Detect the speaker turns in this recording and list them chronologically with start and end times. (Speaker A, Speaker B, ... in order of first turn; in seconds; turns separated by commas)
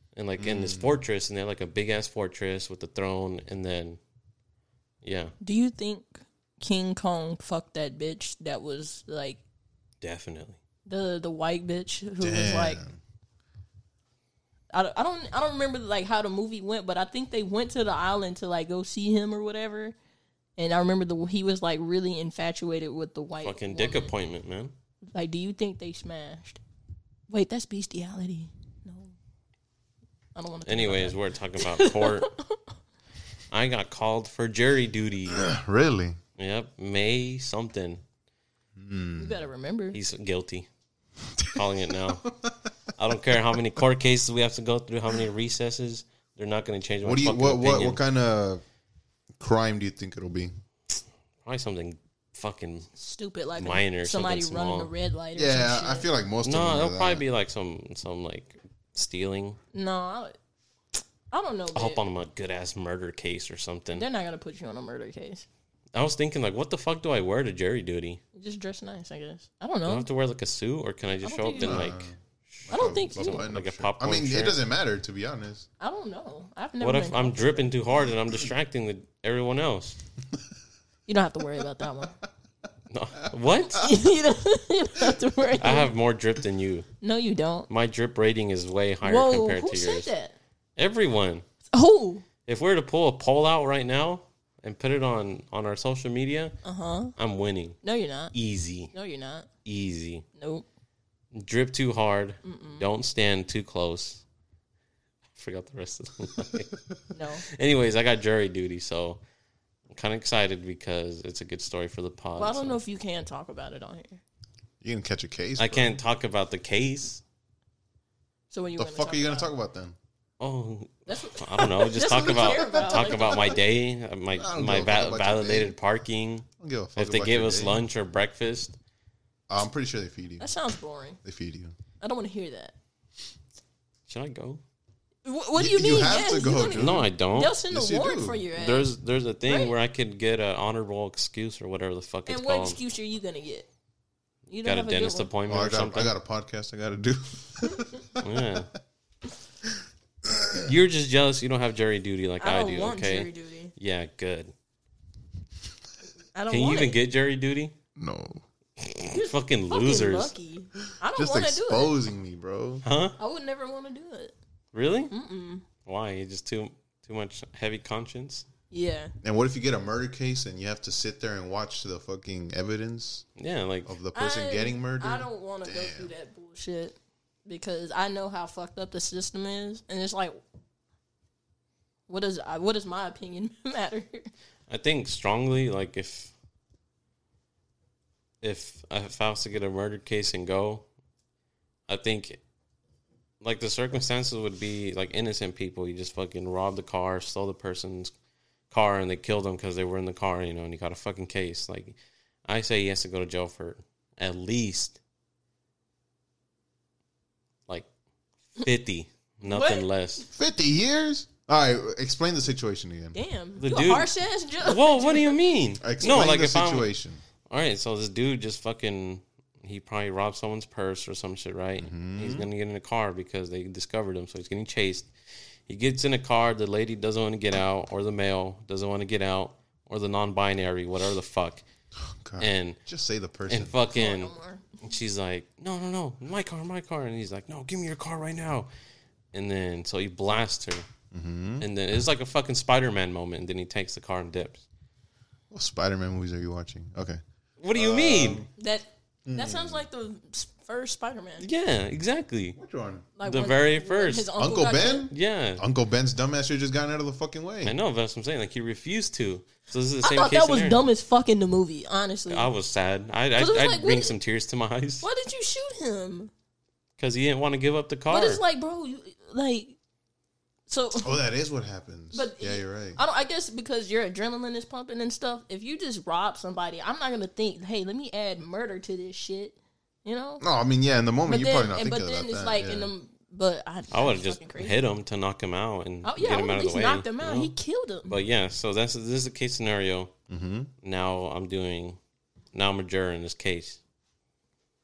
Speaker A: 0.1-4.0, Speaker B: 0.4-1.0, Speaker A: 5.0-5.3, Speaker C: 5.4-9.4, Speaker A: 10.0-10.6, Speaker C: 10.8-12.8, Speaker B: 12.2-13.0, Speaker C: 14.7-19.9, Speaker C: 20.6-24.1, Speaker A: 23.4-24.7, Speaker C: 25.1-26.6, Speaker C: 27.3-29.1, Speaker C: 30.3-32.5, Speaker A: 30.7-32.3, Speaker A: 33.5-35.5, Speaker B: 35.3-36.2, Speaker A: 36.4-38.0, Speaker B: 38.8-39.4, Speaker C: 39.2-40.0, Speaker A: 39.9-40.7, Speaker A: 41.5-42.3, Speaker A: 43.0-48.0, Speaker B: 47.0-48.6, Speaker B: 49.4-50.5, Speaker A: 51.4-52.9, Speaker C: 53.0-56.0, Speaker A: 53.6-54.9, Speaker B: 55.3-57.2, Speaker A: 56.4-59.6, Speaker C: 59.7-60.4, Speaker C: 61.3-62.0, Speaker A: 61.7-64.0, Speaker C: 63.9-65.5, Speaker A: 65.9-68.2, Speaker C: 68.3-70.1, Speaker A: 69.8-74.6, Speaker C: 71.2-71.9, Speaker B: 71.6-75.7, Speaker C: 72.7-73.5, Speaker C: 75.8-77.7, Speaker A: 76.8-80.0, Speaker C: 81.1-82.1, Speaker A: 82.9-83.9, Speaker C: 83.7-85.9, Speaker A: 85.6-86.9, Speaker C: 87.0-87.7, Speaker A: 87.7-90.1, Speaker C: 89.0-90.3, Speaker A: 90.8-91.4, Speaker C: 91.7-92.2, Speaker A: 92.4-96.6, Speaker C: 96.6-97.1, Speaker A: 97.2-97.8, Speaker C: 97.8-98.3, Speaker A: 98.3-98.9, Speaker C: 98.9-99.5, Speaker A: 99.6-100.2, Speaker C: 100.4-100.6, Speaker A: 101.3-104.2, Speaker C: 102.4-102.8, Speaker A: 105.3-106.8, Speaker C: 107.1-107.4, Speaker A: 107.5-109.2, Speaker A: 109.9-112.8, Speaker C: 112.4-114.2, Speaker B: 114.8-115.9, Speaker A: 115.6-117.2, Speaker C: 118.5-119.5, Speaker B: 118.8-120.0, Speaker A: 120.4-128.8, Speaker C: 121.1-123.6, Speaker B: 122.1-123.4, Speaker B: 124.3-125.7, Speaker B: 126.6-127.8, Speaker B: 129.5-130.5, Speaker C: 130.4-131.2, Speaker B: 131.2-131.7, Speaker C: 132.0-132.7, Speaker A: 134.1-134.6, Speaker C: 135.2-138.9, Speaker B: 135.6-137.1, Speaker A: 136.8-137.6, Speaker B: 137.7-138.4, Speaker A: 138.5-142.8, Speaker C: 139.4-139.7, Speaker C: 142.3-143.7, Speaker C: 144.5-145.3, Speaker A: 144.6-146.1, Speaker B: 145.5-148.7, Speaker A: 148.2-148.7, Speaker B: 150.2-150.7, Speaker A: 150.6-154.5, Speaker C: 152.4-153.7, Speaker C: 156.3-157.0, Speaker A: 156.5-157.7, Speaker B: 157.9-158.4, Speaker A: 158.8-160.3, Speaker C: 159.1-161.9, Speaker B: 161.1-162.8, Speaker A: 162.8-163.2, Speaker C: 163.2-164.3, Speaker A: 164.7-165.1, Speaker C: 165.1-165.6, Speaker A: 165.8-168.4, Speaker C: 168.7-169.1, Speaker B: 169.2-173.3, Speaker A: 173.4-173.9, Speaker B: 173.8-176.1, Speaker C: 174.1-180.4, Speaker C: 182.1-184.3, Speaker A: 184.7-186.3, Speaker A: 188.4-190.8, Speaker A: 191.9-192.4, Speaker A: 193.4-198.1, Speaker A: 198.7-205.0, Speaker A: 208.6-210.2, Speaker C: 209.4-209.8, Speaker B: 210.3-213.2, Speaker C: 213.1-215.3, Speaker A: 213.6-214.1, Speaker A: 214.6-216.9, Speaker B: 215.8-217.2, Speaker A: 217.5-225.1, Speaker B: 221.8-222.5, Speaker A: 225.7-231.6, Speaker B: 232.2-233.7, Speaker A: 232.4-232.8, Speaker A: 233.5-238.7, Speaker C: 233.9-234.6, Speaker A: 239.3-240.8, Speaker B: 241.1-241.6, Speaker A: 241.6-244.6, Speaker B: 245.5-247.2, Speaker A: 247.6-248.4, Speaker B: 247.7-248.5, Speaker C: 248.6-251.4, Speaker B: 249.2-249.8, Speaker A: 251.4-252.6, Speaker B: 252.6-253.1, Speaker C: 253.2-255.1, Speaker A: 253.2-254.3, Speaker B: 254.4-257.7, Speaker A: 255.1-255.6, Speaker A: 257.6-260.8, Speaker C: 260.0-262.5, Speaker A: 262.3-265.1, Speaker C: 263.4-264.1, Speaker C: 265.0-266.3, Speaker A: 267.0-268.4, Speaker C: 268.1-269.8, Speaker C: 270.7-271.1, Speaker B: 271.0-273.0, Speaker C: 272.1-280.4, Speaker B: 280.4-282.9, Speaker C: 281.2-284.8, Speaker A: 283.9-287.5, Speaker C: 286.0-288.2, Speaker A: 288.1-290.1, Speaker B: 290.3-290.7, Speaker A: 290.8-292.0, Speaker A: 292.5-293.8